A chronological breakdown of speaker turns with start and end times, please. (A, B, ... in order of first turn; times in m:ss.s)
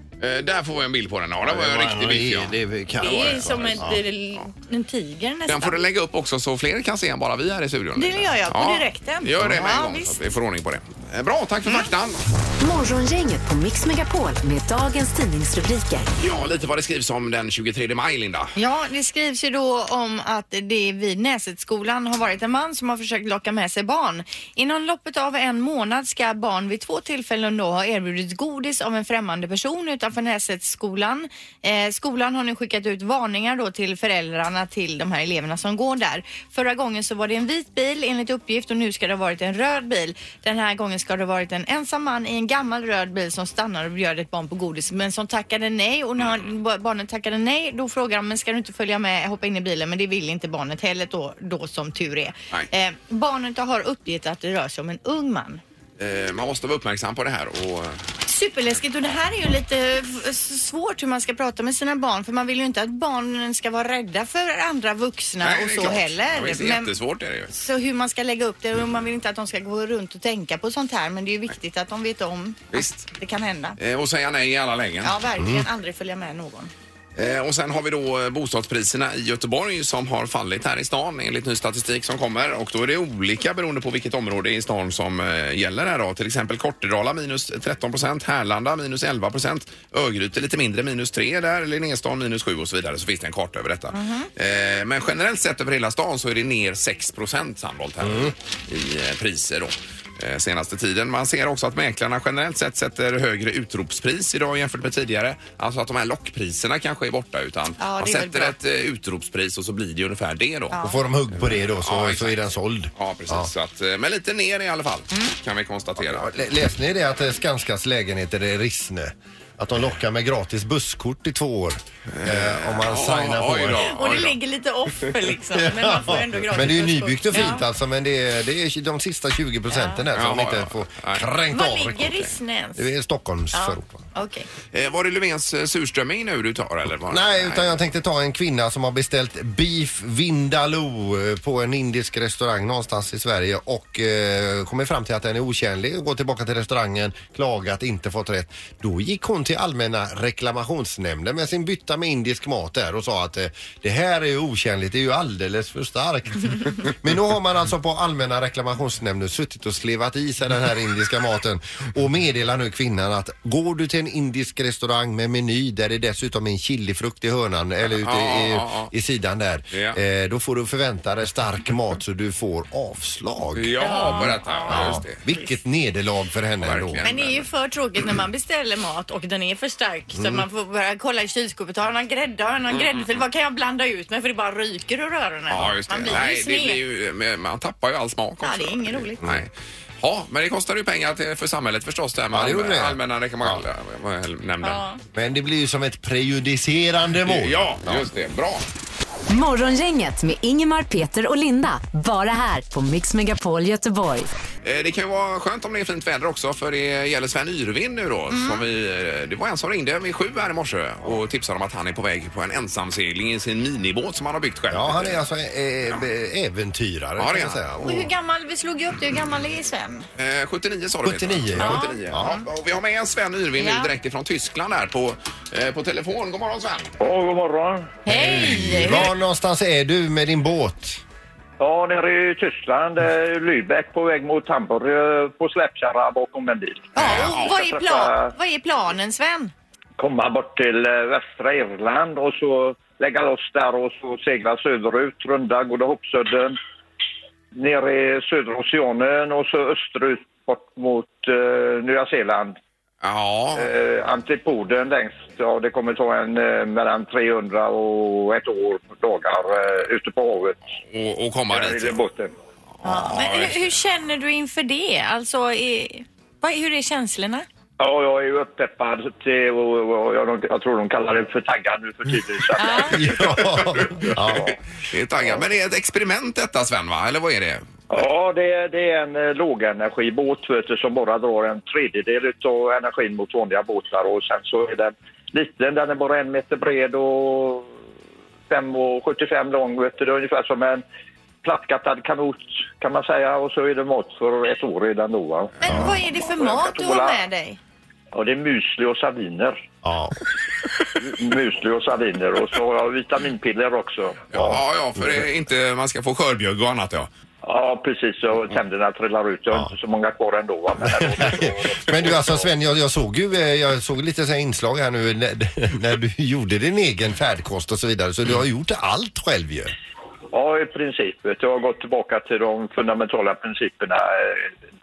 0:00.2-0:03.8 A
0:01.4-0:04.0 B
0:03.0-0:05.8 C
0:05.5-0:12.2 A
0:08.0-0:10.2 C
0:12.6-0:16.1 D
0:16.2-0:18.5 A
0:18.6-0:55.6 C
0:56.0-0:58.0 A
0:58.3-1:06.9 C
1:05.4-1:07.5 A
1:07.5-1:13.8 C
1:12.7-1:13.1 A
1:13.8-1:15.1 A
1:15.0-1:16.7 C
1:15.4-1:15.6 B
1:17.2-1:50.8 A
1:33.9-1:34.3 C
1:38.0-1:38.3 B
1:47.8-1:48.5 C
1:50.7-1:51.0 C
1:50.8-1:53.5 B
1:51.4-1:52.4 A
1:53.0-1:56.3 A
1:56.0-2:03.8 B
2:02.1-2:04.4 A
2:03.8-2:07.6 C
2:05.5-2:12.2 B
2:09.7-2:10.0 C
2:10.1-2:11.2 A
2:11.5-2:12.8 C
2:12.8-2:14.0 B
2:13.5-2:14.5 C
2:14.7-2:17.8 A
2:17.1-2:53.7 B
2:47.9-2:48.9 A
2:49.7-2:50.0 A
2:53.5-2:55.2 A
2:53.8-2:55.5 C
2:54.7-2:57.1 B
2:56.6-2:57.4 A
2:57.0-3:06.8 C
3:02.7-3:03.2 A
3:05.5-3:14.8 A
3:05.6-3:06.2 B
3:08.4-3:09.2 C
3:12.3-3:13.6 B
3:14.6-3:15.0 C
3:15.1-3:18.1 B
3:17.2-3:18.6 A
3:19.3-3:24.3 D
3:24.6-3:35.2 A
3:28.3-3:28.6 C
3:34.7-3:38.1 B
3:37.2-3:37.6 A
3:37.8-3:40.1 C
3:40.2-3:46.9 A
3:41.0-3:42.4 B
3:41.6-3:42.4 C
3:43.6-3:43.9 C
3:47.0-3:48.0 E
3:48.0-3:49.1 C
3:48.1-3:51.0 B
3:51.6-3:58.3 E
3:57.0-3:59.5 C
3:57.0-3:57.5 A
4:00.0-4:06.6 E
4:07.5-4:12.6 E
4:13.0-4:13.7 A
4:13.5-4:20.6 E
4:20.9-4:22.0 A
4:21.5-4:22.3 E
4:22.8-4:27.4 C
4:22.8-4:23.6 A
4:27.8-4:34.5 E
4:32.6-4:33.0 C
4:32.9-4:34.6 B
4:34.9-4:37.6 A
4:37.9-4:47.7 E
4:48.5-4:50.8 E
4:51.4-4:57.2 E
4:55.6-4:57.6 C
4:55.6-4:55.9 B
4:58.1-4:59.6 E
4:59.8-5:00.2 B
5:01.0-5:04.2 E
5:04.3-5:07.1 A
5:04.3-5:05.3 B
5:07.4-5:12.5 E
5:11.0-5:19.7 B
5:20.3-5:24.5 E